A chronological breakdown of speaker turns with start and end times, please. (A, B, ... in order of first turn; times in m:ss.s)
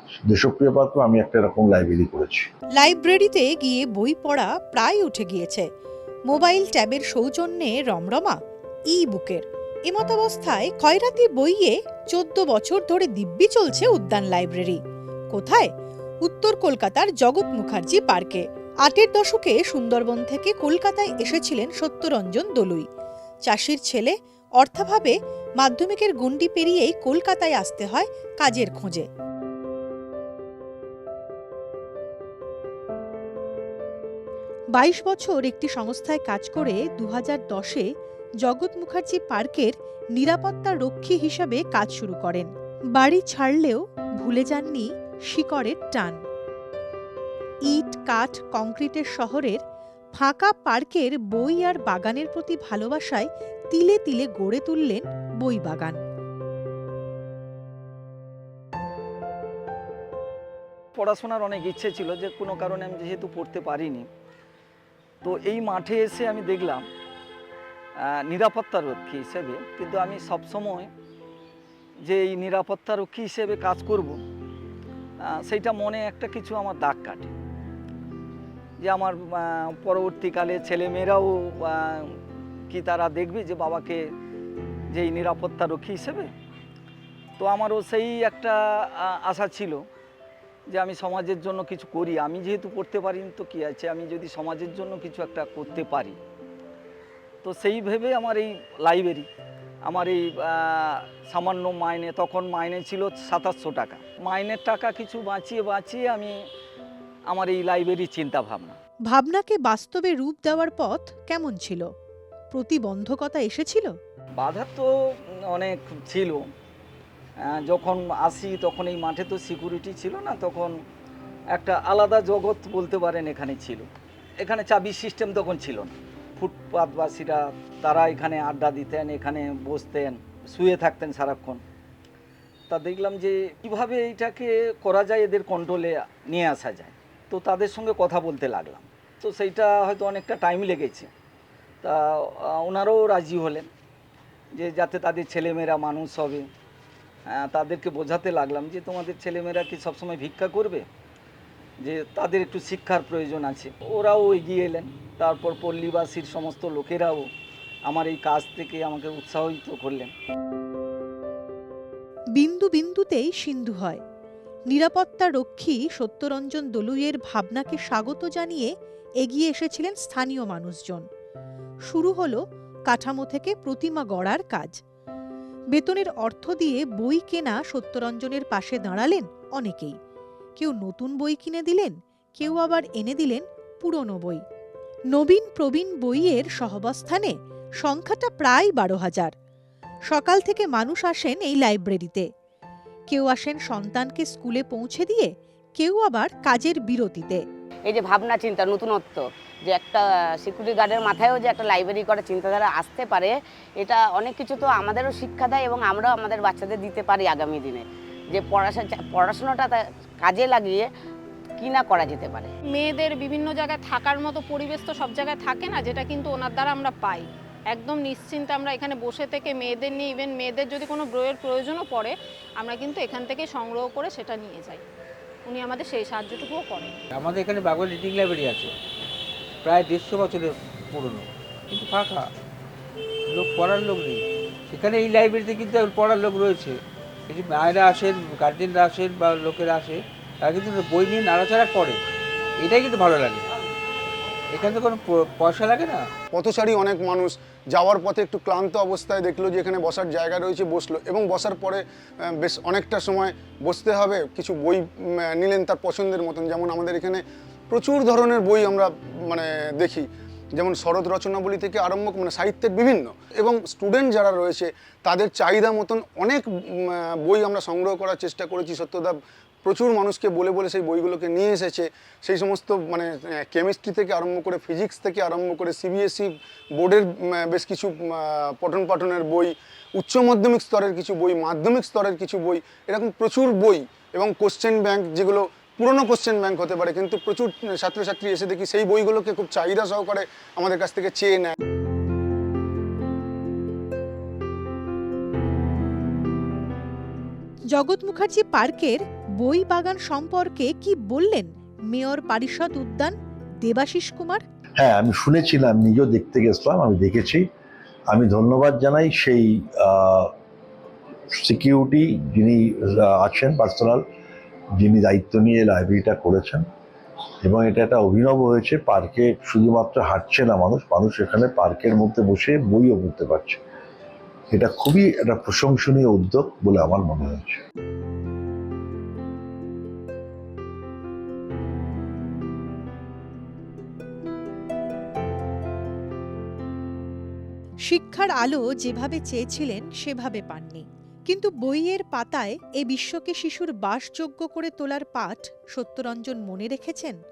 0:00.2-0:02.4 A
0:02.8-0:05.6 B
0:06.3-0:08.4 B
0:08.9-0:14.8 B
0:15.3-0:15.7 B
0:16.2-0:22.8 B
0:23.4-0:29.0 B
0:34.7-0:37.9 B
0:38.4-0:46.2 B
0:47.7-0:49.6 B
0:50.2-0:56.0 B
1:01.0-1:04.0 C
1:05.2-1:06.8 C
1:08.0-1:10.9 C
1:12.0-1:14.2 C
1:15.4-1:17.3 C
1:18.8-1:22.2 C
1:22.7-1:24.0 C
1:24.9-1:26.3 C
1:27.4-1:29.8 C
1:30.7-1:36.2 C
1:37.4-1:39.3 C
1:39.8-1:46.3 C
1:47.3-1:48.8 C
1:49.1-1:51.8 B
1:52.5-1:53.9 B
1:54.4-1:54.9 C
1:55.5-1:56.4 C
1:57.5-2:00.7 C
2:01.5-2:03.8 C
2:04.4-2:11.6 C
2:12.7-2:21.1 C
2:21.8-2:23.7 C
2:24.5-2:26.4 C
2:27.3-2:30.8 C
2:31.8-2:37.2 C
2:37.9-2:40.1 C
2:42.4-2:44.0 B
2:44.7-2:48.7 B
2:49.2-2:51.0 B
2:51.9-2:54.7 B
2:55.7-3:00.0 B
3:00.6-3:04.4 B
3:05.1-3:09.3 B
3:10.1-3:12.3 B
3:13.1-3:17.4 B
3:17.9-3:30.9 D
3:31.6-3:32.5 D
3:32.7-3:44.8 E
3:45.4-3:47.0 E
3:47.1-3:48.7 F
3:49.6-3:52.3 F
3:53.3-4:02.0 F
4:02.6-4:03.5 F
4:04.5-4:06.0 F
4:06.3-4:51.5 G
4:57.7-5:04.4 B
5:04.8-5:07.4 A
5:08.1-5:10.3 A
5:11.3-5:14.0 A
5:14.8-5:16.6 A
5:17.4-5:23.6 A
5:24.5-5:27.6 A
5:37.9-5:47.2 B